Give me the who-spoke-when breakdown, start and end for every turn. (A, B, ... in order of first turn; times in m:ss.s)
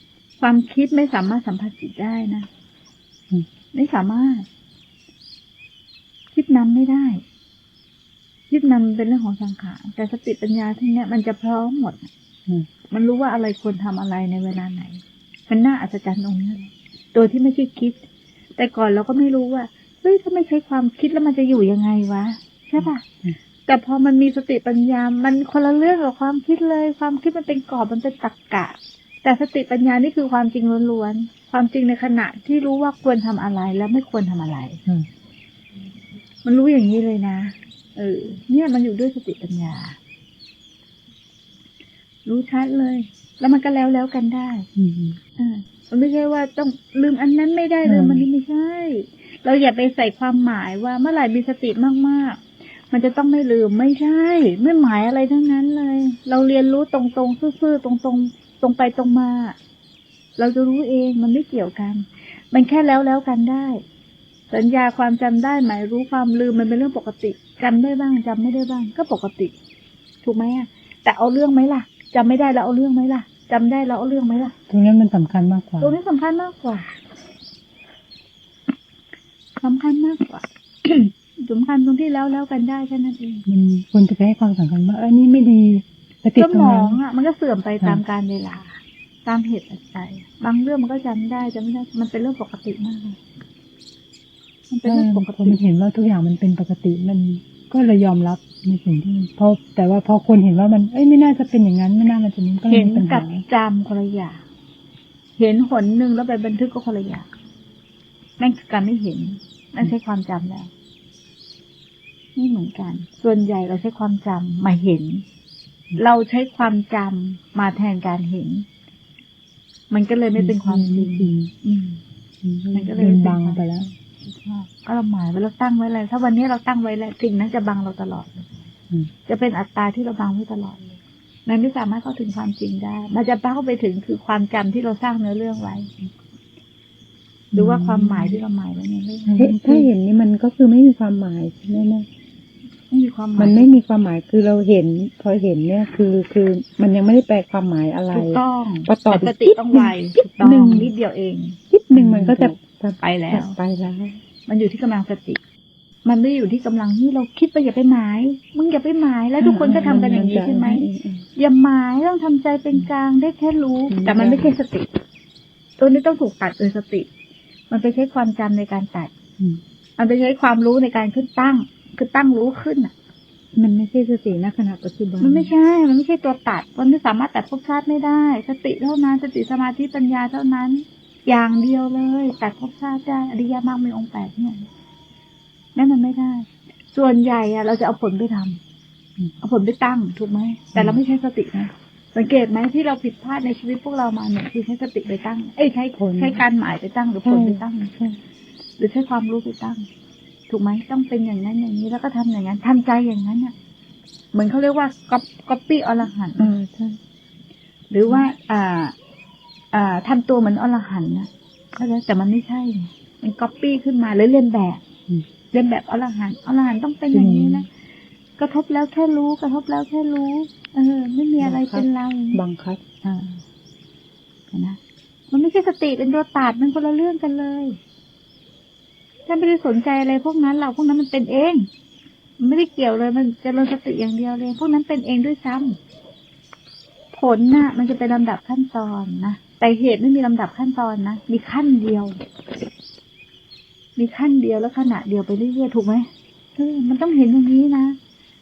0:00.4-0:02.5 A
0:03.7-0:04.5 A
0:06.3-0:07.2 A
0:08.5-0:12.1 A
0:12.9-0:18.0 A
0:18.6-0:23.0 A
0:23.7-0:34.8 A
0:36.4-0:40.0 A
0:42.3-0:44.7 A
0:44.8-0:45.2 B
0:45.4-0:59.6 A
0:47.8-0:48.3 B
1:00.4-1:03.8 A
1:04.5-1:09.5 A
1:10.2-1:14.5 A
1:14.7-1:16.0 B
1:15.8-1:16.9 A
1:19.6-1:23.5 A
1:23.5-1:27.0 B
1:26.4-1:33.2 A
1:34.7-1:35.6 A
1:34.8-1:43.4 B
1:42.7-1:44.4 A
1:45.4-1:47.3 A
1:48.4-1:50.7 A
1:52.4-1:55.2 A
1:56.0-1:58.7 A
1:59.9-2:02.0 A
2:00.4-2:01.5 B
2:02.4-2:03.9 B
2:02.7-2:08.5 A
2:09.3-2:15.9 A
2:17.5-2:18.4 B
2:17.5-2:19.9 A
2:19.3-2:19.9 B
2:19.4-2:22.1 C
2:22.9-2:23.7 A
2:23.4-2:29.9 C
2:28.1-2:33.6 A
2:30.4-2:30.9 B
2:31.7-2:34.2 C
2:31.9-2:32.6 B
2:34.5-2:35.4 A
2:36.0-2:44.9 A
2:39.4-2:40.9 B
2:39.6-2:41.2 C
2:44.0-2:44.4 C
2:45.8-2:47.1 A
2:47.7-2:49.1 A
2:50.0-2:52.9 A
2:53.6-2:55.5 C
2:55.2-3:04.7 A
3:05.8-3:08.6 A
3:09.4-3:17.9 A
3:16.0-3:16.4 B
3:17.3-3:17.6 B
3:18.8-3:19.9 A
3:20.5-3:23.5 A
3:24.3-3:26.6 A
3:26.5-3:26.8 C
3:27.9-3:29.0 A
3:29.7-3:34.8 A
3:35.5-3:37.7 A
3:37.1-3:37.7 B
3:38.4-3:42.4 A
3:41.5-3:41.8 C
3:42.4-3:42.8 C
3:43.0-3:43.4 A
3:44.5-3:44.8 A
3:45.3-3:47.8 A
3:49.3-3:51.7 A
3:52.4-3:55.8 A
3:57.1-4:02.2 A
4:04.0-4:08.0 A